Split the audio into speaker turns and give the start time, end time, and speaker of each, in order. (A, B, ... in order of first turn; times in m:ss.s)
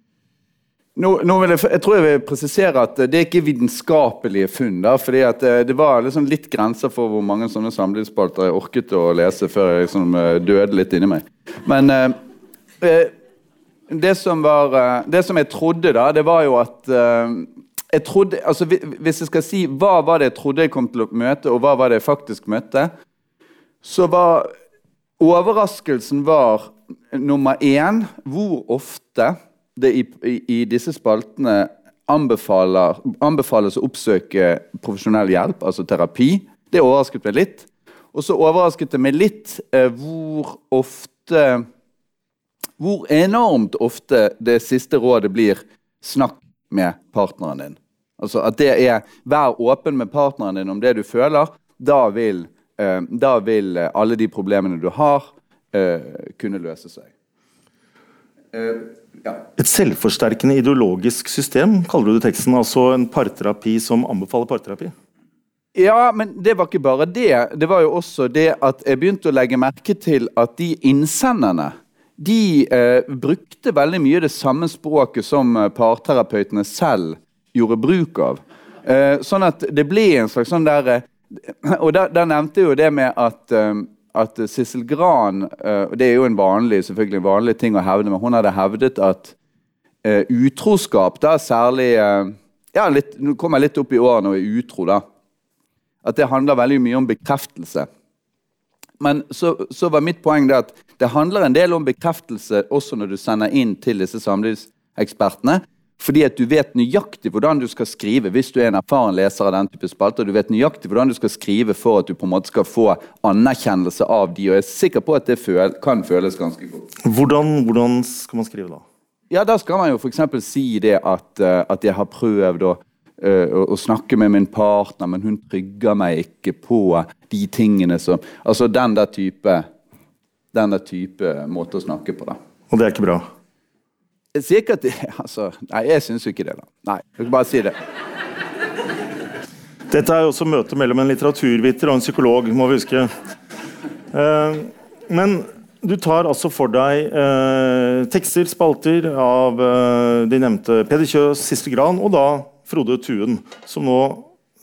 0:01.0-0:12.2 A
0:12.8-0:13.1 A
0:13.9-0:22.9 A
0:23.8-0:24.5 A
0:25.2-0:41.7 A
0:42.8-0:57.1 A
0:58.5-0:59.4 A
0:59.6-1:04.9 B
1:05.7-1:29.3 A
1:30.0-1:35.0 A
1:36.0-1:37.9 A
1:39.0-1:56.8 A
1:57.0-1:58.8 B
1:59.3-2:09.7 A
2:10.5-2:12.4 A
2:12.7-2:13.2 B
2:14.3-2:17.8 A
2:19.9-2:23.1 B
2:24.1-2:34.3 B